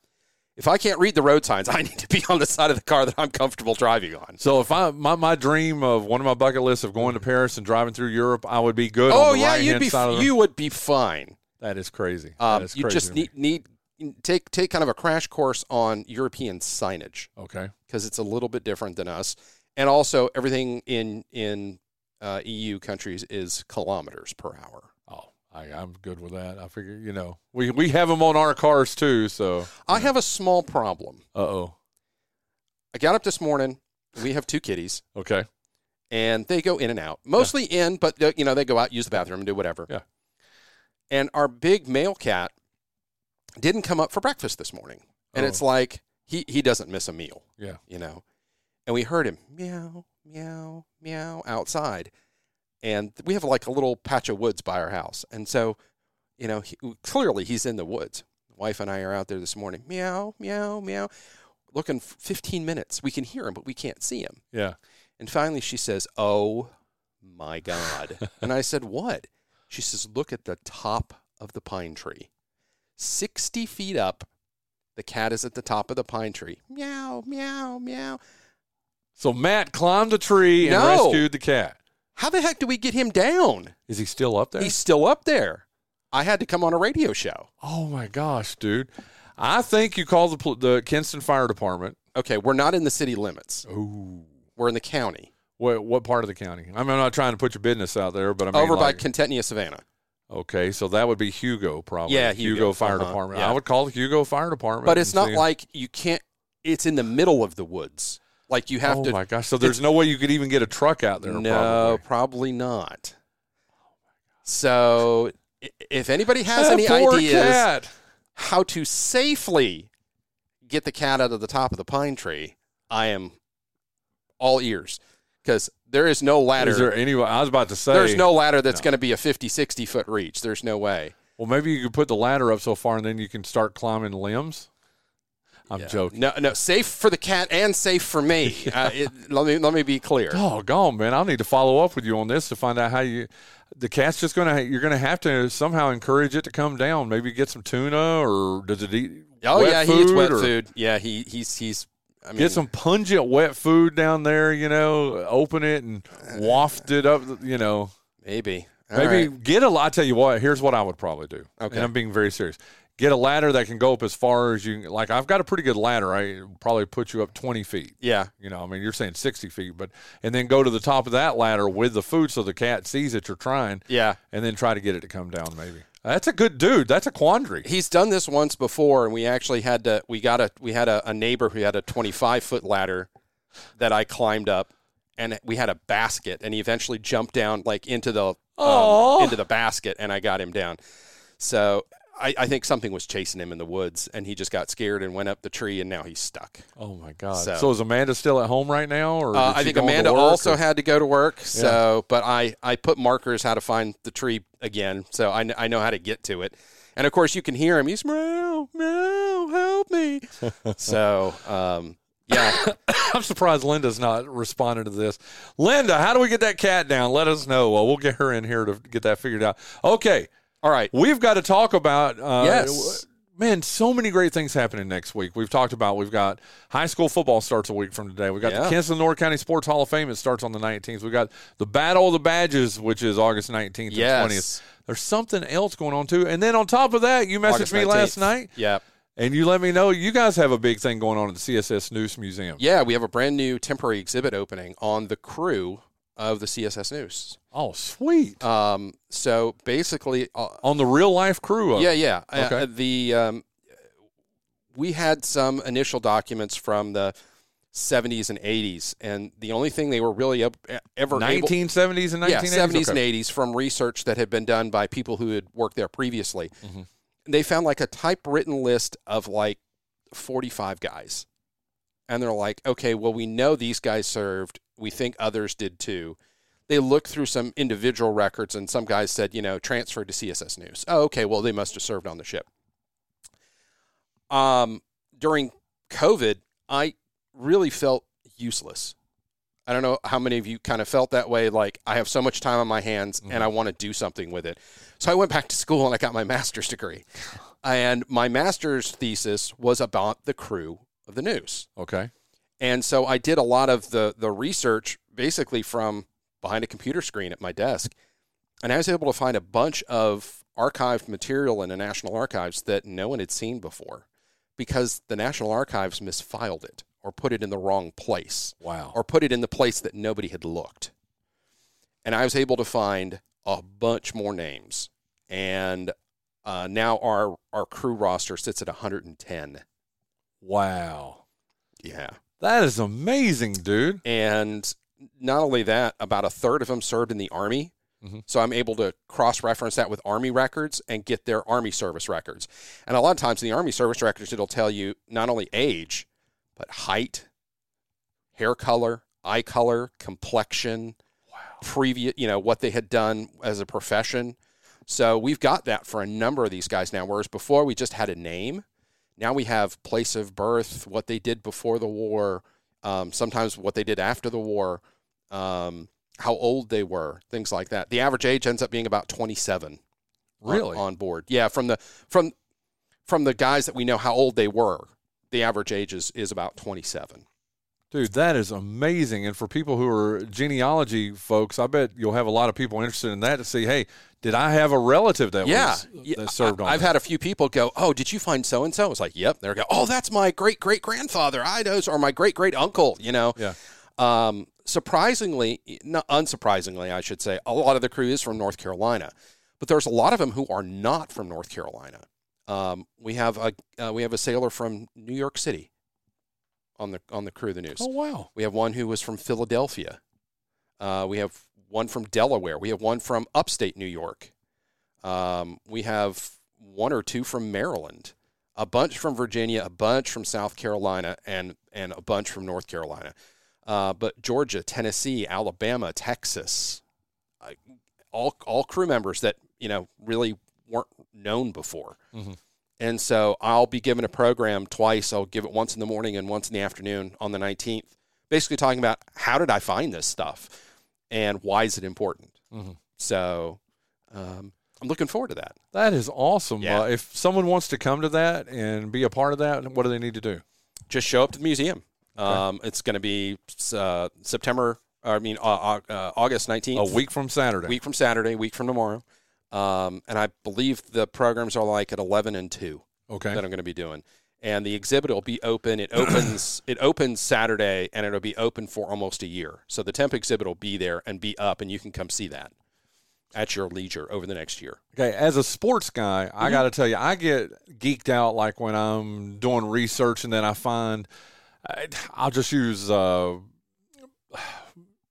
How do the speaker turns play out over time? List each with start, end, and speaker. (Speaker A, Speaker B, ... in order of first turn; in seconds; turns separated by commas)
Speaker A: 0.6-4.4, Speaker B: 4.4-10.3, Speaker A: 9.1-11.4, Speaker B: 11.6-13.3, Speaker A: 12.4-17.3, Speaker B: 17.4-17.7, Speaker A: 17.9-24.9, Speaker B: 25.1-30.1, Speaker A: 29.8-31.2, Speaker B: 31.3-31.7, Speaker A: 32.9-35.0, Speaker B: 35.1-35.5, Speaker A: 36.1-39.9, Speaker A: 41.1-42.5, Speaker A: 43.6-48.2, Speaker B: 45.3-45.6, Speaker A: 48.9-52.1, Speaker A: 52.8-55.8, Speaker A: 56.4-61.1, Speaker A: 61.7-64.4, Speaker B: 64.5-64.8, Speaker A: 65.2-66.7, Speaker A: 67.2-72.3, Speaker A: 73.0-74.3, Speaker A: 75.0-78.2, Speaker B: 79.2-81.8, Speaker A: 80.6-81.2, Speaker A: 82.2-83.7, Speaker B: 83.9-84.7, Speaker A: 84.6-87.5, Speaker B: 87.6-92.0, Speaker A: 92.1-93.6, Speaker B: 93.7-94.3, Speaker A: 94.6-95.3, Speaker B: 95.6-99.0, Speaker A: 98.5-99.8, Speaker B: 100.3-105.4, Speaker A: 102.1-103.6, Speaker A: 104.8-109.8, Speaker B: 108.8-112.0, Speaker A: 111.2-113.2, Speaker A: 114.4-117.7, Speaker B: 116.5-117.9, Speaker A: 118.3-119.9, Speaker A: 120.6-123.3, Speaker A: 124.4-126.9, Speaker B: 126.6-128.8, Speaker A: 127.9-131.2, Speaker B: 131.4-134.7, Speaker B: 135.7-136.2, Speaker A: 135.7-140.4, Speaker B: 140.3-150.5, Speaker A: 149.4-152.6, Speaker B: 152.4-157.9, Speaker A: 158.2-159.3, Speaker B: 158.9-177.7, Speaker A: 161.6-161.9, Speaker A: 168.0-168.3, Speaker A: 173.9-174.2, Speaker A: 177.6-183.1, Speaker A: 183.8-190.8, Speaker B: 188.6-189.4, Speaker A: 191.4-196.7, Speaker B: 196.8-200.6, Speaker A: 197.3-197.7, Speaker A: 199.3-212.6, Speaker B: 201.5-201.8, Speaker B: 212.3-220.3, Speaker A: 220.6-220.9, Speaker B: 220.9-238.5, Speaker A: 222.4-223.0, Speaker A: 228.4-228.8, Speaker A: 233.9-234.6, Speaker A: 237.4-238.8, Speaker B: 239.2-242.6, Speaker A: 242.6-247.4, Speaker B: 247.5-248.4, Speaker A: 248.4-250.6, Speaker B: 250.6-252.7, Speaker A: 251.7-253.4, Speaker A: 254.7-257.1, Speaker A: 257.7-261.5, Speaker B: 261.1-263.0, Speaker A: 262.2-266.5, Speaker A: 267.3-269.6, Speaker A: 270.1-271.2, Speaker A: 272.1-276.2, Speaker A: 276.7-282.4, Speaker A: 284.3-288.9, Speaker A: 289.7-297.1, Speaker A: 297.6-301.7, Speaker B: 301.8-302.1, Speaker A: 302.6-307.9, Speaker A: 308.6-314.0, Speaker A: 314.6-320.9, Speaker B: 318.6-318.9, Speaker A: 322.0-325.9, Speaker A: 326.4-329.6, Speaker B: 330.4-331.2, Speaker A: 331.8-332.2, Speaker B: 332.4-334.0, Speaker A: 334.0-337.7, Speaker A: 338.3-347.3, Speaker A: 348.3-351.0, Speaker A: 351.6-358.6, Speaker A: 359.2-369.8, Speaker B: 370.4-370.8, Speaker A: 370.4-372.3, Speaker A: 373.1-377.2, Speaker B: 377.9-386.9, Speaker A: 385.4-393.4, Speaker A: 394.0-405.7, Speaker A: 406.8-410.0, Speaker B: 407.8-408.3, Speaker A: 410.8-414.3, Speaker A: 415.0-423.1, Speaker A: 423.6-426.8, Speaker A: 428.1-432.0, Speaker A: 432.8-440.6, Speaker A: 441.1-442.4, Speaker A: 443.0-443.6, Speaker A: 444.1-445.6, Speaker B: 445.7-450.4, Speaker A: 446.6-446.9, Speaker A: 450.9-457.0, Speaker B: 456.7-457.8, Speaker A: 457.6-472.5, Speaker B: 463.1-463.4, Speaker A: 473.3-474.8, Speaker B: 474.9-481.1, Speaker B: 481.6-483.4, Speaker B: 484.3-484.7